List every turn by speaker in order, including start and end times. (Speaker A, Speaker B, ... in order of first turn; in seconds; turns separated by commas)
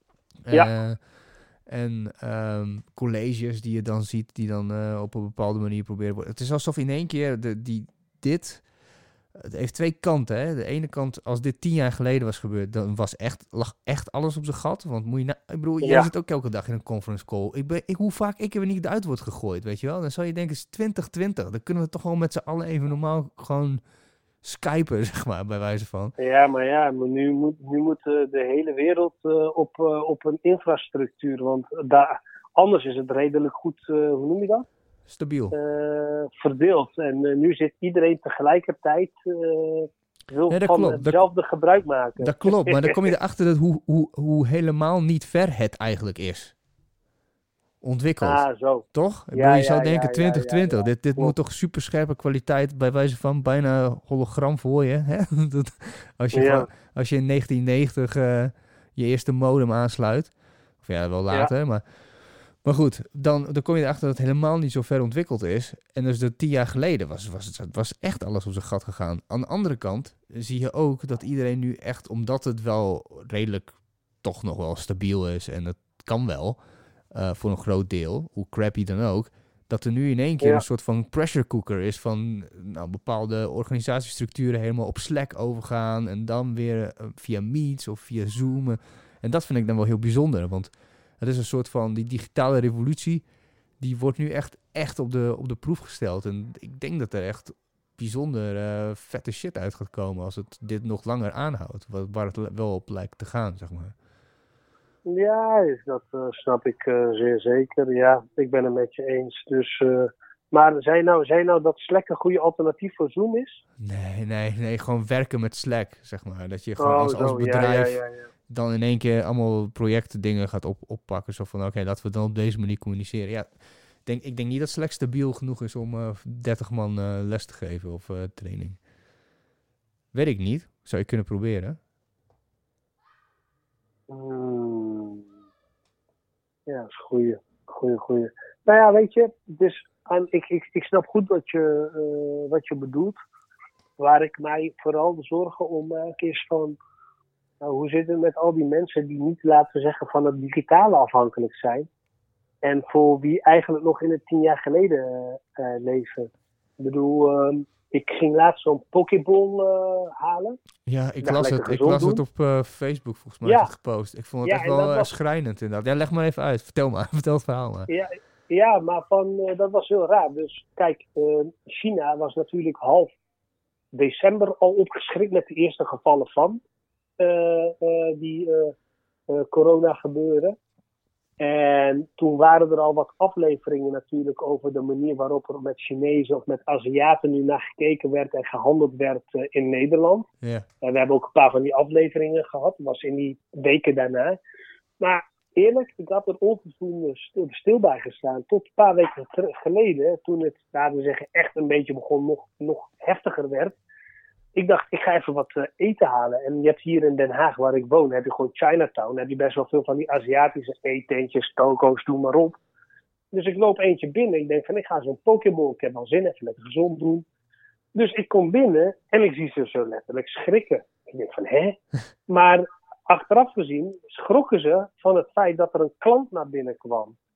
Speaker A: 0.4-1.1, Speaker A: 1.6-8.7, Speaker A: 9.3-23.8, Speaker B: 15.8-16.1, Speaker A: 24.4-26.1, Speaker B: 26.2-34.6, Speaker A: 35.1-35.5, Speaker B: 35.5-43.1, Speaker A: 40.5-41.2, Speaker A: 42.2-46.5, Speaker A: 47.8-76.6, Speaker B: 48.2-51.3, Speaker B: 56.3-56.7, Speaker A: 77.1-93.2, Speaker A: 93.8-103.9, Speaker B: 105.0-113.6, Speaker A: 113.8-128.8, Speaker B: 116.8-118.3, Speaker A: 130.1-131.8, Speaker B: 134.1-135.2, Speaker B: 136.7-143.2, Speaker B: 144.0-146.8, Speaker B: 147.6-151.9, Speaker B: 152.6-160.6, Speaker A: 160.8-167.9, Speaker B: 161.2-162.2, Speaker B: 163.4-163.7, Speaker B: 164.4-165.1, Speaker B: 167.9-173.1, Speaker B: 173.9-176.6, Speaker B: 177.2-178.8, Speaker B: 179.3-180.6, Speaker B: 181.4-190.3, Speaker B: 190.8-194.4, Speaker B: 195.0-203.8, Speaker B: 204.5-212.6, Speaker B: 213.3-217.2, Speaker B: 217.9-227.2